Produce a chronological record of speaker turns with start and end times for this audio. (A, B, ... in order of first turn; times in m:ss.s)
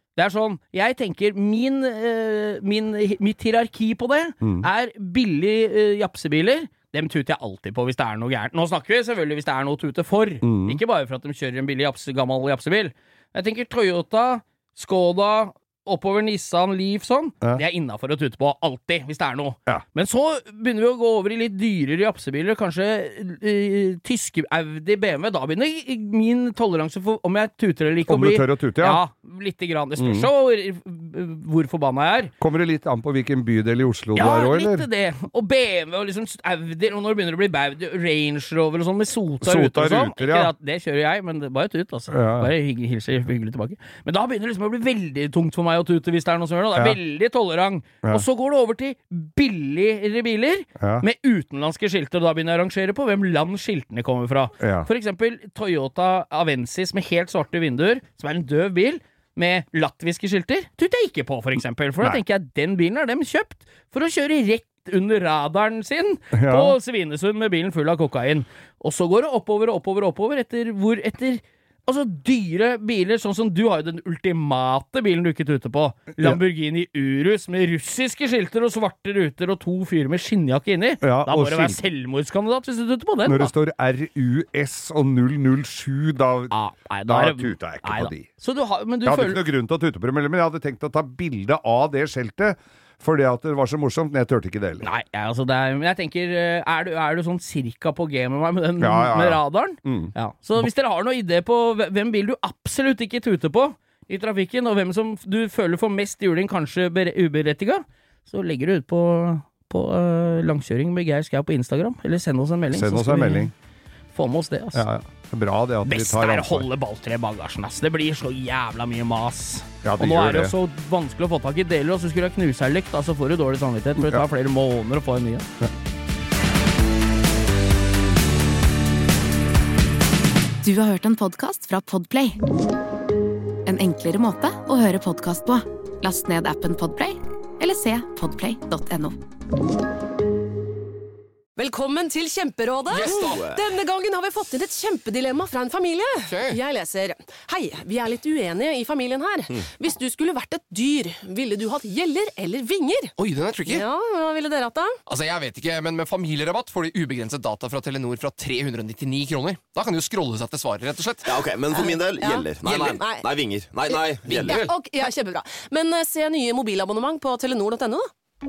0:00.2-0:32.3 A
0:04.4-0:04.7 B
0:10.4-0:10.8 B
0:28.1-0:29.0 B
0:30.0-0:30.3 B
0:32.4-0:34.9 B
0:34.1-1:23.5 A
0:39.4-0:40.5 B
0:42.1-0:42.5 B
0:50.8-0:51.0 B
0:54.6-0:54.9 B
1:06.3-1:06.8 B
1:21.0-1:21.8 B
1:23.2-1:26.5 B
1:26.5-1:29.4 A
1:27.1-1:28.3 B
1:29.0-1:34.9 B
1:34.8-1:53.5 A
1:38.8-1:40.6 B
1:52.7-1:53.5 B
1:54.1-1:54.9 A
1:54.7-1:56.7 B
1:55.8-2:05.4 A
1:59.8-2:00.5 B
2:04.0-2:04.2 B
2:10.6-2:12.4 C
2:13.6-2:19.1 C
2:21.6-2:33.1 D
2:22.9-2:23.4 E
2:23.0-2:23.6 F
2:26.3-2:26.6 E
2:33.2-2:33.8 E
2:33.6-2:35.0 D
2:35.1-2:41.5 E
2:41.2-2:44.7 F
2:41.7-2:43.3 D
2:43.8-2:48.1 D